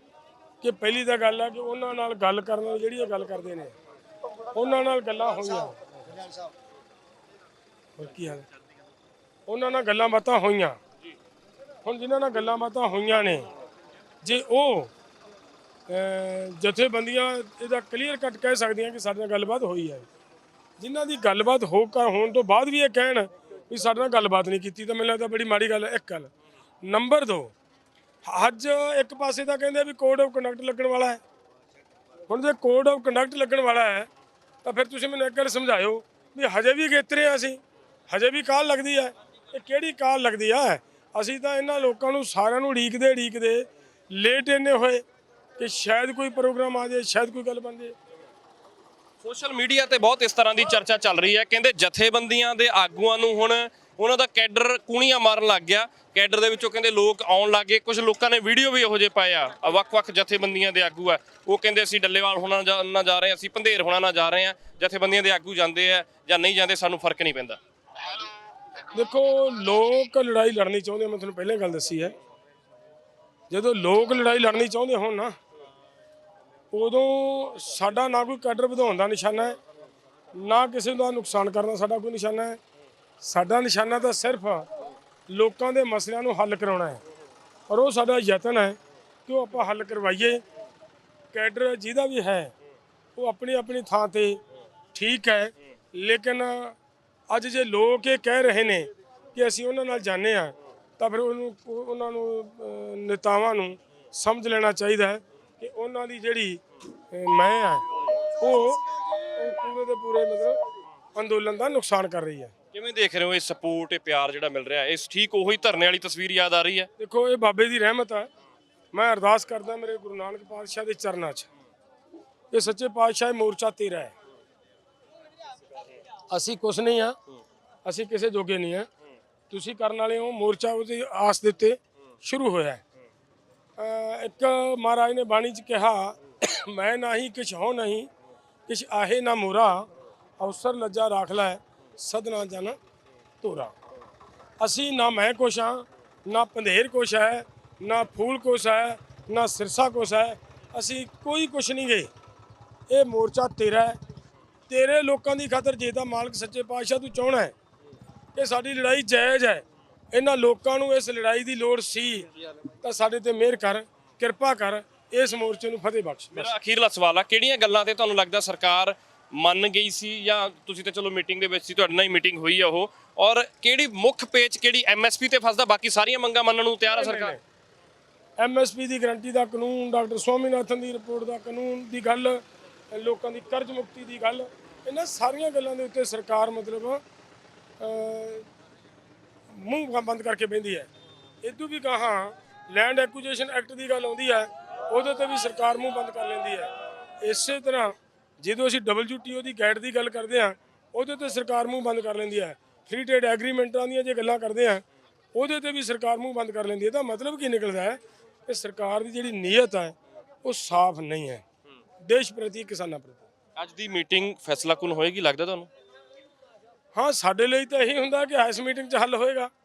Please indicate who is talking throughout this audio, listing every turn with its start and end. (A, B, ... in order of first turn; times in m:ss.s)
0:00.6-0:03.7 A
0:04.5-0:06.2 A
0:08.0-0:08.4 A
0:09.5-0:10.8 A
0:11.8-0:13.5 A
0:14.2-0:14.9 A
0:15.9-0:20.0 A
0:20.8-0:26.3 A
0:26.8-0:27.5 A
0:28.2-0:31.2 A
0:32.3-0:34.1 A
0:34.6-0:45.0 A
0:45.6-0:47.9 A
0:49.2-1:07.6 B
1:08.9-1:12.1 A
1:13.5-1:15.3 A
1:16.7-1:19.6 A
1:20.3-1:22.6 A
1:23.2-1:24.7 A
1:25.3-1:27.0 A
1:27.7-1:30.4 A
1:31.3-1:32.5 A
1:33.2-1:34.4 A
1:34.9-1:36.8 A
1:37.3-1:50.6 A
1:51.1-1:52.5 A
1:52.7-1:56.9 B
1:57.0-1:58.3 A
1:58.9-2:01.5 A
2:02.5-2:04.1 A
2:06.3-2:07.2 A
2:07.8-2:08.9 A
2:09.5-2:12.8 A
2:13.8-2:18.1 A
2:18.7-2:22.8 A
2:23.4-2:23.7 A
2:24.6-2:32.1 A
2:32.9-2:34.0 A
2:34.7-2:37.5 A
2:38.3-2:42.3 A
2:42.8-2:46.5 A
2:46.3-2:57.4 B
2:56.9-2:57.4 A
2:58.4-3:07.0 A
3:07.8-3:08.5 A
3:09.5-3:10.9 A
3:11.4-3:16.7 A
3:17.2-3:31.4 A
3:32.0-3:33.3 A
3:33.6-3:35.7 B
3:36.9-3:39.5 A